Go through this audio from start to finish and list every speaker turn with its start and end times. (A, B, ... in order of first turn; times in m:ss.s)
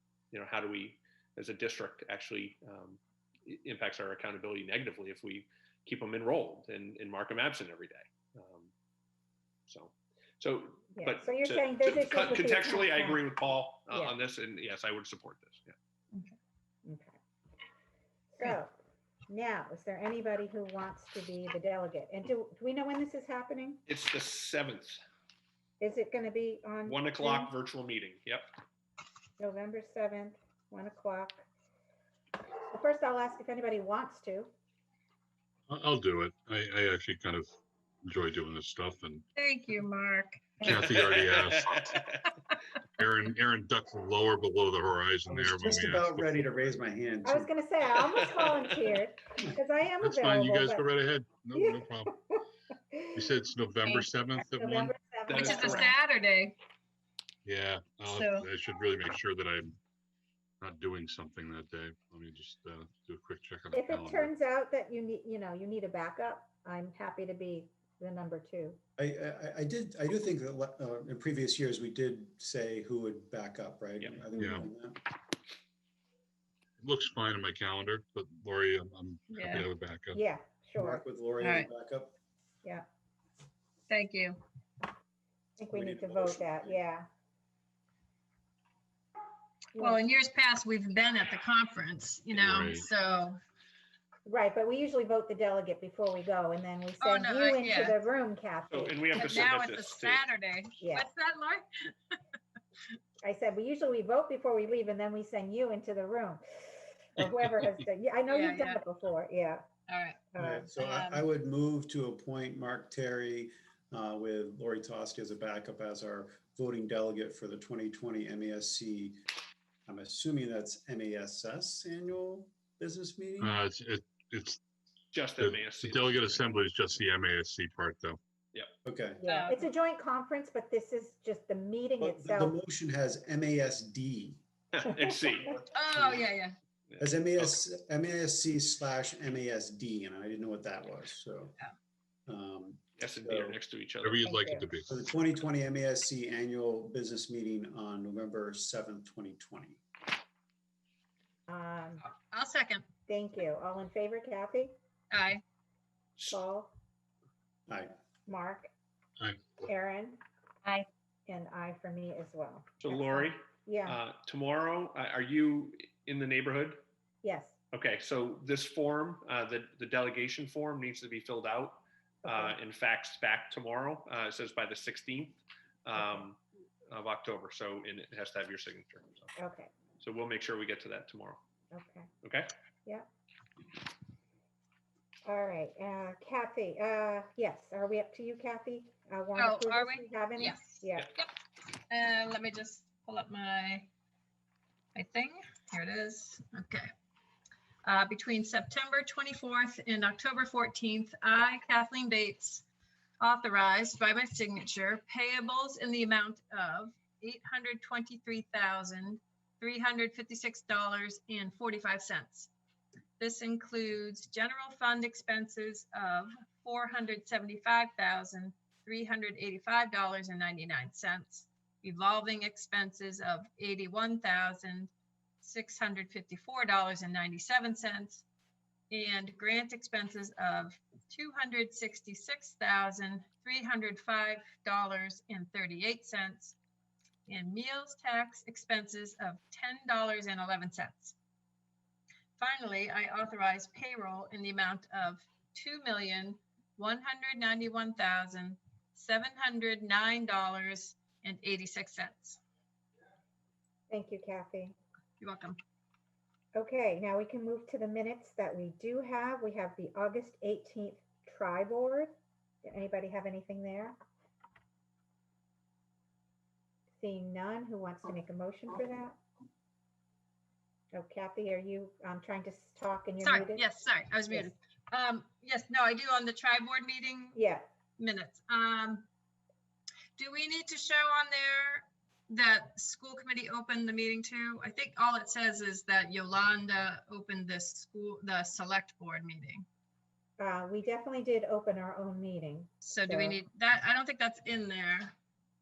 0:00.3-0:08.7 A
0:09.7-0:15.8 A
0:11.0-0:13.3 B
0:16.8-0:17.2 B
0:18.3-0:18.7 B
0:19.3-0:23.8 B
0:23.9-0:25.0 A
0:25.8-0:27.5 B
0:26.8-0:28.5 A
0:29.4-0:31.5 B
0:32.7-0:34.5 B
0:35.7-0:37.5 C
0:38.0-0:39.2 C
0:39.4-0:40.6 D
0:40.6-0:41.9 C
0:40.7-0:42.2 A
0:43.0-0:46.5 C
0:45.3-0:47.5 E
0:47.2-0:50.9 B
0:50.0-0:52.2 C
0:51.6-0:53.4 B
0:53.2-0:55.0 C
0:53.9-0:56.0 B
0:55.3-0:56.0 A
0:55.3-0:56.6 D
0:57.4-0:59.8 C
0:58.1-0:58.5 D
1:00.6-1:04.3 C
1:03.7-1:08.8 B
1:09.0-1:15.1 E
1:14.3-1:14.7 C
1:16.8-1:20.2 C
1:19.3-1:19.7 D
1:20.1-1:21.0 B
1:20.8-1:22.2 E
1:21.4-1:21.7 D
1:23.9-1:24.4 D
1:25.6-1:27.1 B
1:25.7-1:26.8 E
1:29.7-1:33.4 D
1:29.8-1:30.0 B
1:32.3-1:32.9 C
1:34.3-1:39.5 B
1:37.0-1:38.0 D
1:38.7-1:40.2 A
1:39.2-1:42.1 D
1:40.8-1:41.1 B
1:43.2-1:49.7 B
1:48.3-1:48.8 D
1:49.9-1:51.3 D
1:50.3-1:50.6 B
1:50.4-1:59.2 E
1:59.9-2:03.5 E
2:03.4-2:04.6 C
2:05.1-2:06.5 A
2:05.4-2:08.2 C
2:08.8-2:09.2 E
2:09.2-2:12.6 B
2:09.2-2:09.6 D
2:12.0-2:14.4 E
2:14.7-2:15.6 A
2:15.7-2:16.6 D
2:16.9-2:17.6 A
2:17.0-2:21.6 E
2:22.3-2:23.6 E
2:23.0-2:24.2 A
2:24.0-2:24.9 C
2:24.2-2:24.7 B
2:24.9-2:29.8 E
2:31.5-2:32.1 B
2:32.0-2:32.9 D
2:33.1-2:34.8 B
2:35.1-2:35.4 D
2:36.3-2:36.7 B
2:37.7-2:37.9 E
2:38.3-2:38.7 B
2:39.2-2:39.6 C
2:39.6-2:40.2 B
2:41.3-2:44.0 B
2:42.8-2:46.8 A
2:47.2-2:47.6 B
2:47.7-2:56.4 A
2:52.2-2:52.6 B
2:56.0-2:56.3 B
2:56.9-2:59.3 A
2:59.4-2:59.7 B
3:00.0-3:01.4 A
3:01.7-3:02.1 B
3:02.2-3:02.5 A
3:05.2-3:11.1 B
3:09.4-3:11.3 D
3:11.9-3:13.9 D
3:15.0-3:16.9 D
3:17.8-3:22.7 D
3:23.2-3:32.5 D
3:33.2-3:44.9 D
3:45.4-3:48.2 D
3:48.9-3:56.6 D
3:57.3-4:01.2 D
4:02.4-4:12.4 D
4:13.9-4:14.8 B
4:15.2-4:15.6 D
4:16.5-4:22.1 B
4:22.6-4:24.0 B
4:27.0-4:29.2 B
4:30.9-4:33.7 B
4:33.2-4:37.4 D
4:34.3-4:34.5 B
4:37.4-4:37.6 B
4:38.0-4:39.1 D
4:40.2-4:49.6 D
4:50.4-4:53.4 B
4:52.8-4:55.1 D